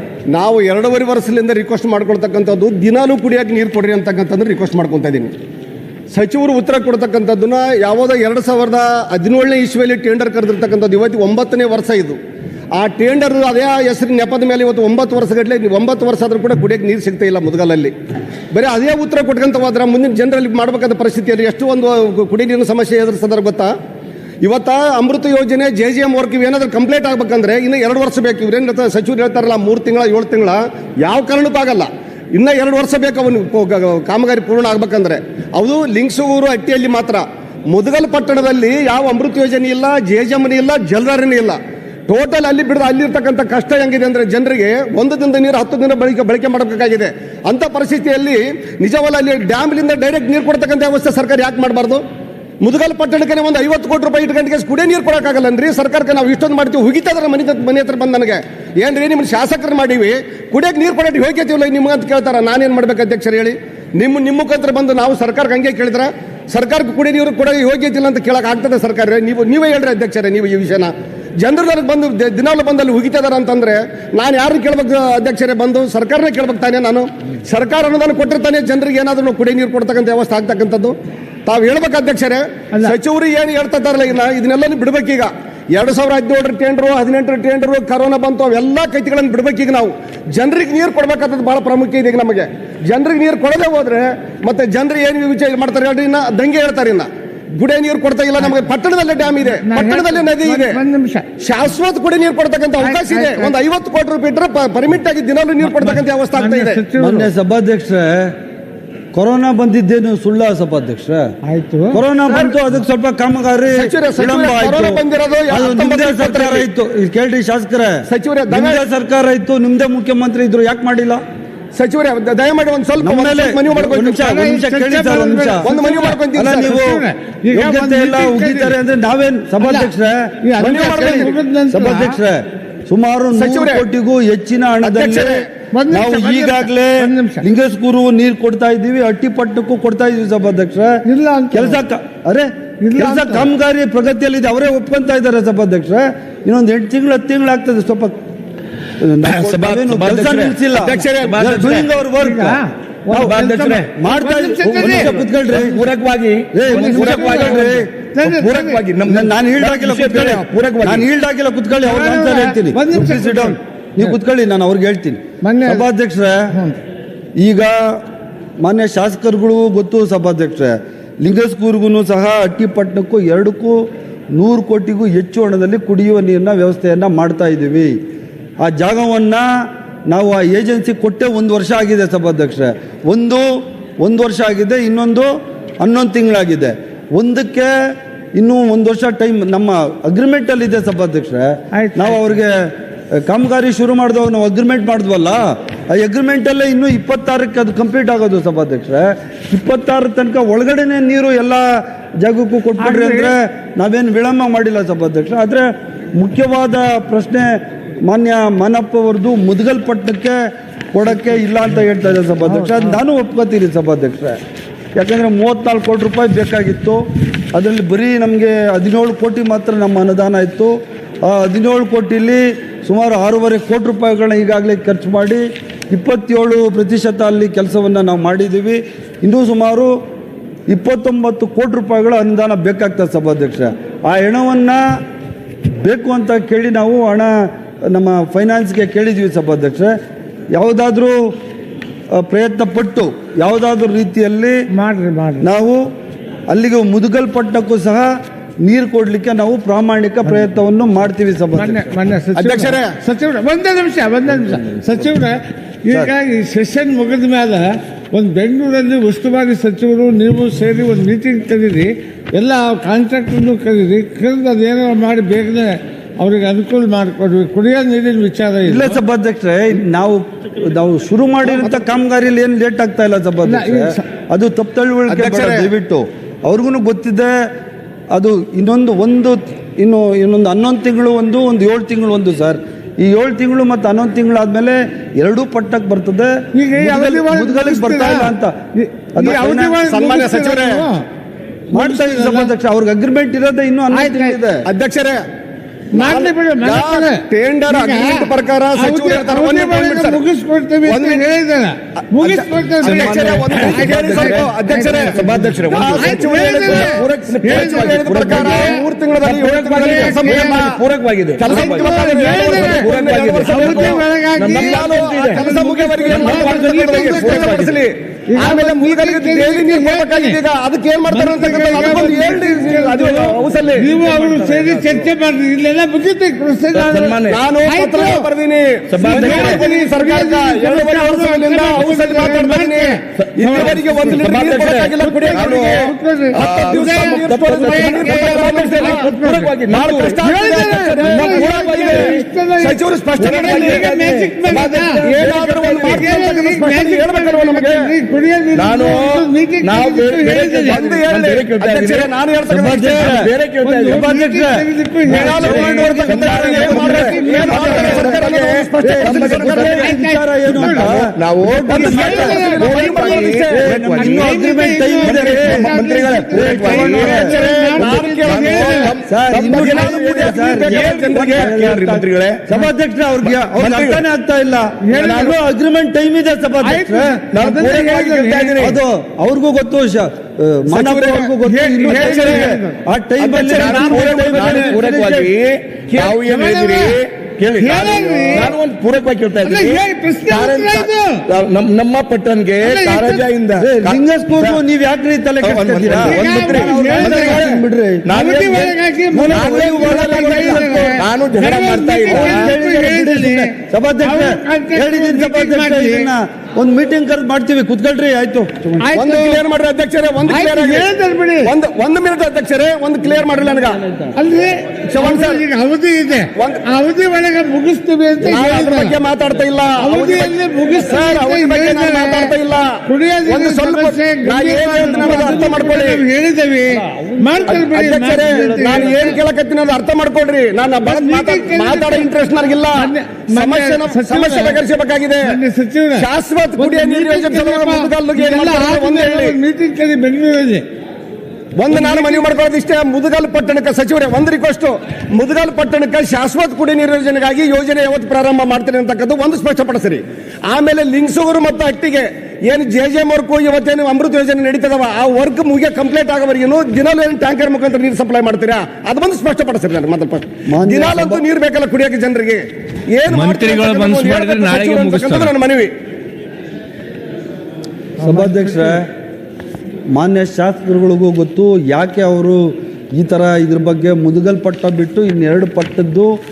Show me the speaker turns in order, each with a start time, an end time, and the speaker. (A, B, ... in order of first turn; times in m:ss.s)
0:00.3-0:05.3 A
0:06.1-0:12.2 A
0:12.7-0:17.9 A
0:18.5-0:23.7 A
0:24.4-0:41.6 A
0:42.1-0:52.0 A
0:52.6-1:21.0 A
1:21.5-1:40.8 A
1:39.5-1:41.3 B
1:41.4-1:46.8 A
1:42.8-1:43.5 B
1:45.6-1:47.3 B
1:47.0-1:48.3 C
1:49.1-1:51.3 C
1:51.4-1:52.0 B
1:51.9-2:01.2 C
1:52.3-1:52.6 A
1:53.8-1:56.6 A
1:58.1-1:58.8 A
2:01.8-2:04.3 A
2:03.0-2:05.7 C
2:04.1-2:08.8 B
2:05.6-2:06.8 A
2:06.3-2:21.0 C
2:09.6-2:09.9 B
2:10.4-2:12.2 B
2:10.6-2:11.3 A
2:13.3-2:13.8 A
2:14.8-2:15.5 A
2:15.7-2:17.4 B
2:21.1-2:21.8 B
2:21.5-2:28.2 C
2:22.8-2:23.5 B
2:29.0-2:33.4 C
2:29.2-2:31.9 D
2:30.8-2:31.4 A
2:32.2-2:35.2 B
2:33.1-2:33.9 D
2:34.0-2:35.8 C
2:34.6-2:41.1 D
2:36.5-2:37.9 C
2:36.7-2:38.8 B
2:39.1-2:46.6 C
2:41.8-2:44.1 B
2:45.4-2:45.9 B
2:46.5-2:46.8 B
2:47.4-2:48.0 C
2:48.6-2:57.9 C
2:58.6-2:59.5 C
3:00.1-3:03.5 C
3:04.0-3:07.7 C
3:08.4-3:12.6 C
3:11.7-3:12.2 B
3:13.2-3:27.5 C
3:22.8-3:23.3 B
3:28.0-3:30.4 C
3:30.9-3:34.4 C
3:35.0-3:37.0 C
3:37.5-3:49.9 C
3:50.7-3:54.8 C
3:55.7-3:59.9 C
4:00.5-4:01.3 C
4:02.2-4:04.6 C
4:04.7-4:05.5 B
4:05.4-4:05.8 C
4:06.5-4:08.1 C
4:08.6-4:11.9 C
4:11.6-4:29.0 B
4:12.4-4:13.0 A
4:28.6-4:37.3 C
4:31.5-4:31.8 A
4:33.4-4:34.0 B
4:35.1-4:35.7 A
4:38.1-4:48.5 C
4:46.5-4:51.0 B
4:49.2-4:49.8 C
4:49.8-4:50.8 A
4:51.7-4:52.5 B
4:51.7-4:54.6 C
4:53.9-4:54.4 B
4:54.7-4:55.2 A
4:55.9-5:00.2 A
4:56.0-5:08.8 B
5:00.8-5:01.2 A
5:02.3-5:10.8 A
5:02.8-5:04.0 C
5:03.7-5:15.4 D
5:09.8-5:10.8 B
5:11.4-5:12.9 B
5:11.4-5:24.0 A
5:13.4-5:17.7 B
5:16.1-5:17.8 D
5:18.3-5:20.4 B
5:21.1-5:28.3 B
5:24.0-5:25.0 D
5:26.7-5:27.4 D
5:27.3-5:39.1 A
5:28.9-5:29.6 D
5:29.0-5:39.6 B
5:33.2-5:40.2 D
5:39.7-5:43.8 A
5:40.2-5:45.1 B
5:41.0-5:42.2 D
5:43.2-5:46.2 D
5:45.0-5:47.9 A
5:45.8-5:50.8 B
5:48.6-5:52.1 D
5:50.6-5:53.2 A
5:52.5-5:53.3 C
5:52.8-5:54.1 D
5:53.6-5:58.2 B
5:53.9-5:58.2 C
5:55.1-5:59.8 A
5:55.1-5:59.9 D
5:58.8-6:02.4 C
5:59.7-6:00.9 B
6:00.5-6:04.4 D
6:01.7-6:03.4 B
6:01.7-6:03.6 A
6:03.5-6:05.7 C
6:04.0-6:09.6 B
6:05.0-6:12.5 D
6:06.3-6:07.3 C
6:07.1-6:08.9 A
6:09.1-6:17.2 C
6:09.5-6:11.7 A
6:13.2-6:14.0 D
6:14.8-6:15.4 B
6:15.0-6:15.4 D
6:16.6-6:18.8 B
6:17.3-6:18.8 D
6:18.6-6:25.3 C
6:20.8-6:21.2 A
6:20.8-6:21.2 D
6:21.4-6:22.8 B
6:22.0-6:22.4 D
6:23.2-6:34.6 D
6:23.4-6:24.8 B
6:26.0-6:27.0 B
6:27.6-6:28.5 B
6:27.6-6:28.5 C
6:29.4-6:31.2 B
6:32.6-6:33.3 B
6:33.6-6:38.1 C
6:35.4-6:38.8 D
6:35.7-6:37.5 B
6:38.1-6:46.1 B
6:39.1-6:41.0 C
6:39.3-6:42.5 D
6:42.1-6:48.9 C
6:48.8-6:49.4 B
6:48.9-6:50.9 A
6:50.3-6:51.5 B
6:51.4-6:53.8 A
6:54.2-6:59.0 B
6:54.9-6:55.4 A
6:56.4-6:56.6 A
6:58.2-7:06.0 A
6:59.8-7:02.3 B
7:02.9-7:09.2 B
7:04.9-7:05.6 C
7:06.7-7:08.9 C
7:07.5-7:15.3 A
7:10.8-7:12.1 B
7:12.7-7:14.6 B
7:15.2-7:20.6 B
7:16.0-7:19.4 A
7:21.6-7:45.7 A
7:21.7-7:22.3 B
7:40.5-7:41.2 C
7:43.1-7:45.3 D
7:48.0-7:48.9 C
7:48.0-7:48.8 B
7:49.9-7:56.1 C